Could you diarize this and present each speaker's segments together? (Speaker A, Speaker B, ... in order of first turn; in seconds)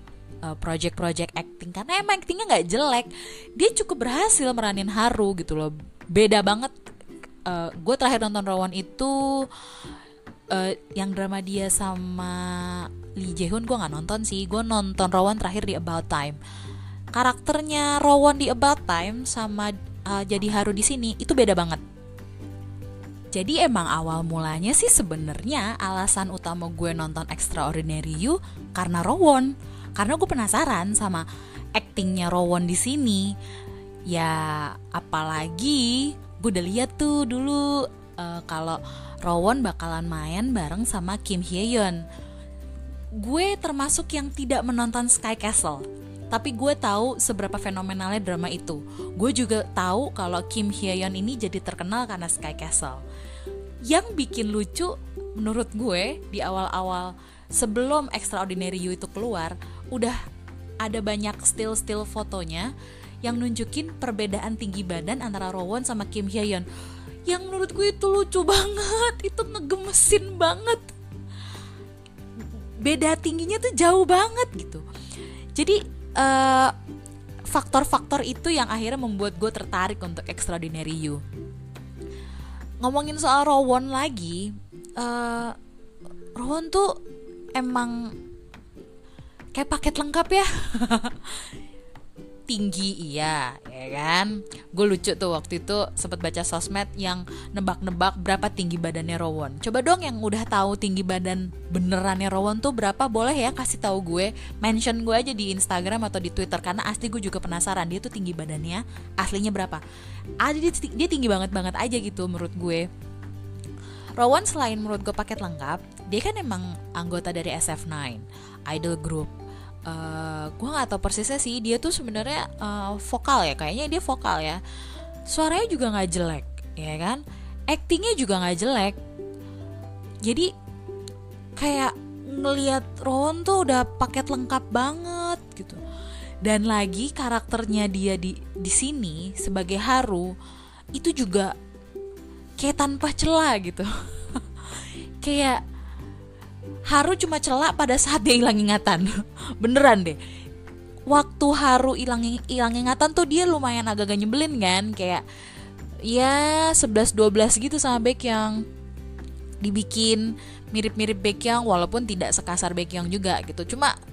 Speaker A: 0.4-6.8, 7.5-9.5, 10.5-16.4, 17.1-21.8, 23.3-33.4, 34.1-42.0, 43.2-53.0, 53.9-60.2, 60.8-62.7, 63.2-66.7, 67.3-70.9, 72.4-74.8, 75.6-76.7, 77.5-81.2, 82.8-85.6, 86.4-87.0, 87.5-88.2, 89.5-91.5, 92.5-109.8, 110.4-112.9, 114.2-119.3, 119.9-124.6, 125.3-129.0, 130.2-130.5, 131.6-135.8, 136.4-140.3, 140.9-141.5, 142.6-145.6, 146.9-150.2, 151.1-155.2, 156.1-158.6, 159.6-163.9